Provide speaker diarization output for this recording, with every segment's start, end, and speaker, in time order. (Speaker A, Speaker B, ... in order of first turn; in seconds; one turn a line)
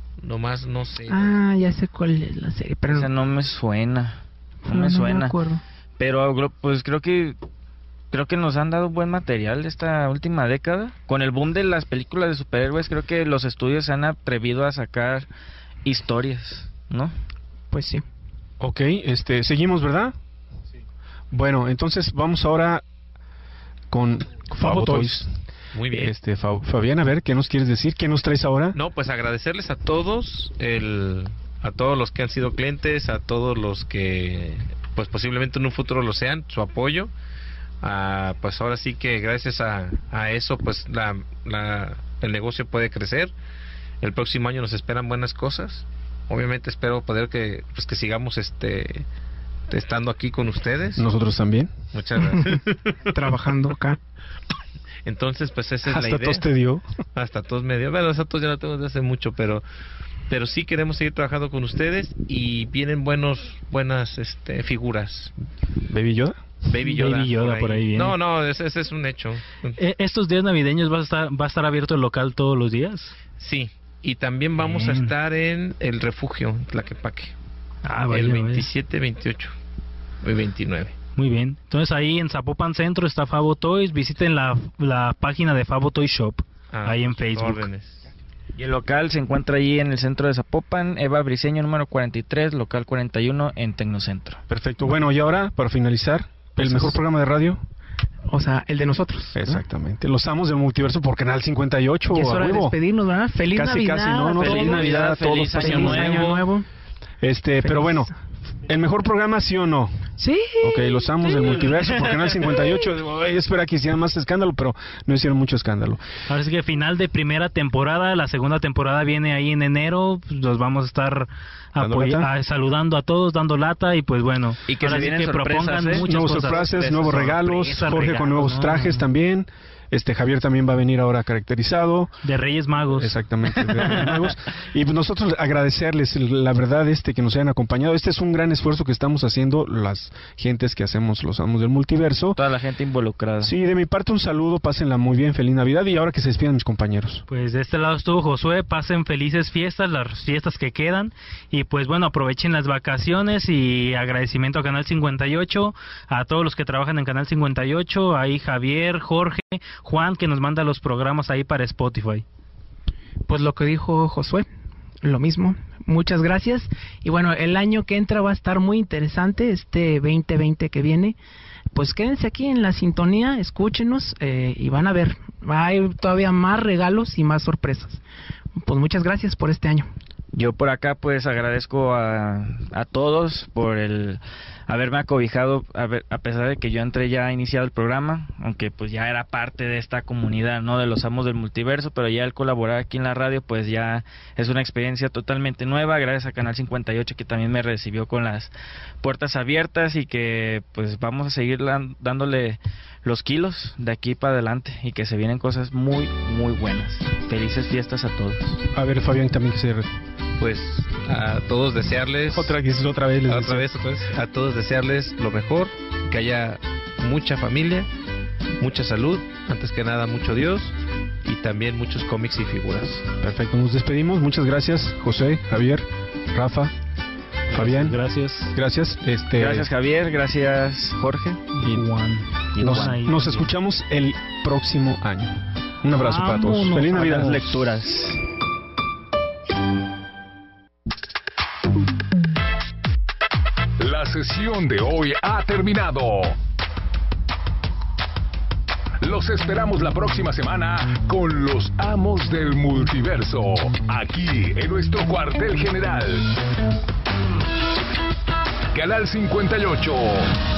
Speaker A: 0.2-1.4
Speaker B: 1.1-3.1
Speaker C: 2.9-5.3
Speaker B: 4.7-5.6
Speaker C: 6.0-7.4
Speaker C: 8.1-15.3
Speaker C: 15.8-17.1
Speaker B: 17.7-18.0
Speaker D: 18.6-20.1
Speaker D: 21.3-22.8
Speaker D: 23.9-25.3
Speaker B: 24.6-25.2
Speaker A: 25.7-26.1
Speaker D: 25.9-28.8
Speaker A: 28.7-37.1
Speaker A: 37.8-43.3
Speaker A: 44.0-49.1
Speaker A: 49.7-51.0
Speaker D: 51.0-51.7
Speaker A: 51.9-53.0
Speaker B: 52.2-54.0
Speaker A: 55.0-56.4
Speaker D: 55.9-56.8
Speaker A: 57.2-59.6
Speaker A: 60.3-65.3
Speaker D: 65.9-66.4
Speaker A: 66.7-69.8
Speaker E: 66.8-68.2
Speaker E: 69.8-73.1
Speaker A: 73.4-77.3
Speaker E: 74.6-75.1
Speaker E: 77.8-78.7
Speaker A: 78.1-79.5
Speaker A: 80.2-80.9
Speaker E: 81.2-87.7
Speaker A: 86.7-88.0
Speaker C: 88.6-94.4
Speaker D: 94.5-97.6
Speaker B: 98.3-99.6
Speaker D: 99.3-102.8
Speaker B: 102.1-106.7
Speaker D: 103.5-106.3
Speaker C: 104.3-106.5
Speaker D: 107.2-108.1
Speaker B: 107.6-108.1
Speaker D: 108.7-109.9
Speaker B: 110.2-111.7
Speaker D: 110.6-116.0
Speaker E: 116.3-129.1
Speaker D: 121.8-122.3
Speaker C: 124.7-127.4
Speaker D: 126.0-132.1
Speaker E: 132.2-133.2
Speaker D: 132.9-142.4
Speaker C: 142.4-143.5
Speaker D: 143.4-147.2
Speaker E: 147.3-162.2
Speaker B: 163.3-164.5
Speaker B: 165.0-171.2
Speaker B: 171.7-178.0
Speaker B: 178.6-179.9
Speaker C: 180.3-198.5
Speaker C: 199.0-208.6
Speaker D: 208.7-209.9
Speaker A: 210.4-212.6
Speaker D: 212.3-213.7
Speaker A: 213.3-217.9
Speaker A: 218.6-223.1
Speaker D: 223.2-226.7
Speaker D: 227.5-228.0
Speaker E: 227.5-228.5
Speaker D: 228.5-229.7
Speaker C: 229.4-231.4
Speaker E: 231.6-233.5
Speaker D: 231.6-231.9
Speaker D: 232.6-237.5
Speaker C: 232.6-232.9
Speaker E: 235.9-237.3
Speaker C: 236.9-238.2
Speaker F: 243.8-246.4
Speaker F: 249.0-256.3
Speaker F: 258.7-260.3